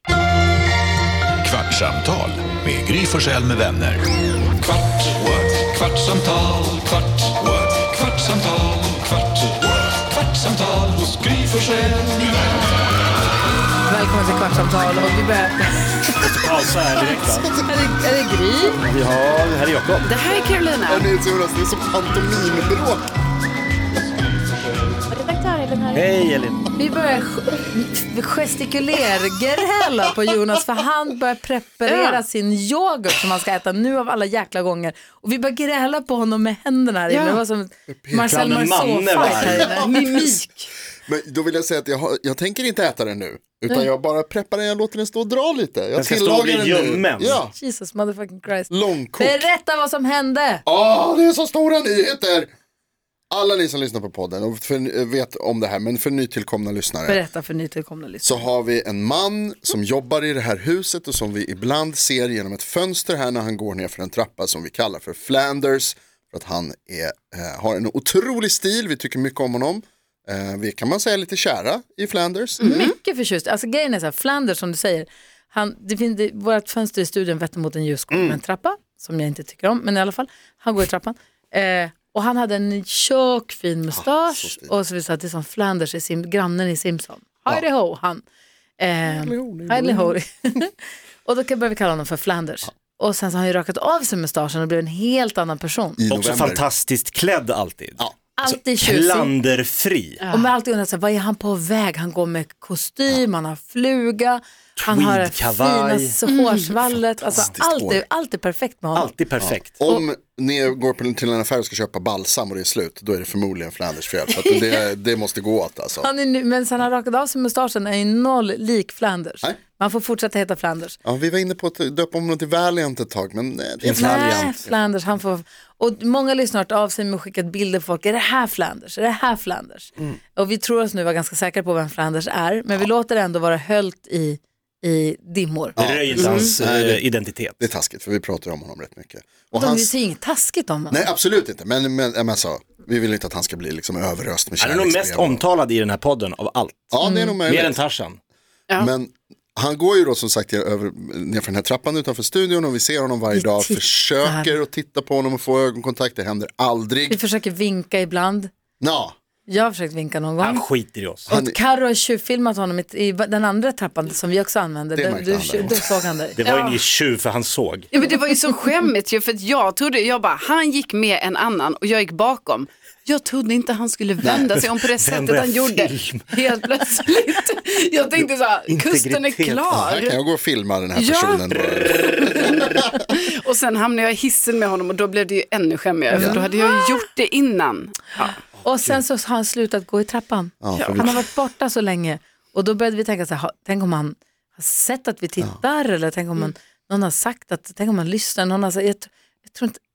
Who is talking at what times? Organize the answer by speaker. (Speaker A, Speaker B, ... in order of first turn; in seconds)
Speaker A: 1.4-4.0, 4.9-9.0, 10.3-12.1
Speaker B: 13.8-16.3, 17.6-18.8, 26.8-40.4, 47.5-50.6, 57.0-58.4, 72.6-88.2, 88.8-96.0, 98.4-99.3, 100.3-109.1, 116.0-121.0, 123.9-135.8, 139.5-141.0, 147.0-147.4, 153.3-154.6, 157.1-158.5, 159.5-160.7, 161.3-166.4, 186.1-186.7, 188.6-199.8
Speaker C: 16.2-17.5, 18.8-20.1, 25.9-26.6, 38.3-39.7, 46.0-47.4, 96.1-100.2, 104.8-106.2, 109.0-109.8, 123.8-124.5, 135.8-137.6, 144.6-146.9, 147.4-148.2, 160.4-161.3, 166.3-167.9, 174.6-176.4, 178.7-179.8, 181.5-182.9, 188.6-189.0
Speaker D: 17.0-17.8, 20.9-23.1, 37.9-38.5, 39.4-39.8, 41.0-47.5, 48.7-49.5, 50.7-52.5, 53.3-57.2, 58.2-72.7, 78.1-78.4, 83.9-84.7, 89.0-90.2, 96.0-96.6, 107.2-108.0, 109.4-116.1, 121.0-124.8, 135.8-137.0, 137.6-139.9, 140.9-145.4, 146.9-147.8, 148.8-157.2, 158.8-159.1, 161.3-161.6, 164.9-165.9, 174.2-174.5, 179.8-182.9, 190.6-191.2
Speaker E: 20.0-21.1, 25.3-25.8, 31.9-32.2, 37.1-37.4, 39.2-40.7, 72.6-72.9, 100.2-100.5, 106.3-106.7, 136.2-136.5, 166.4-166.8, 167.9-180.2, 180.9-188.3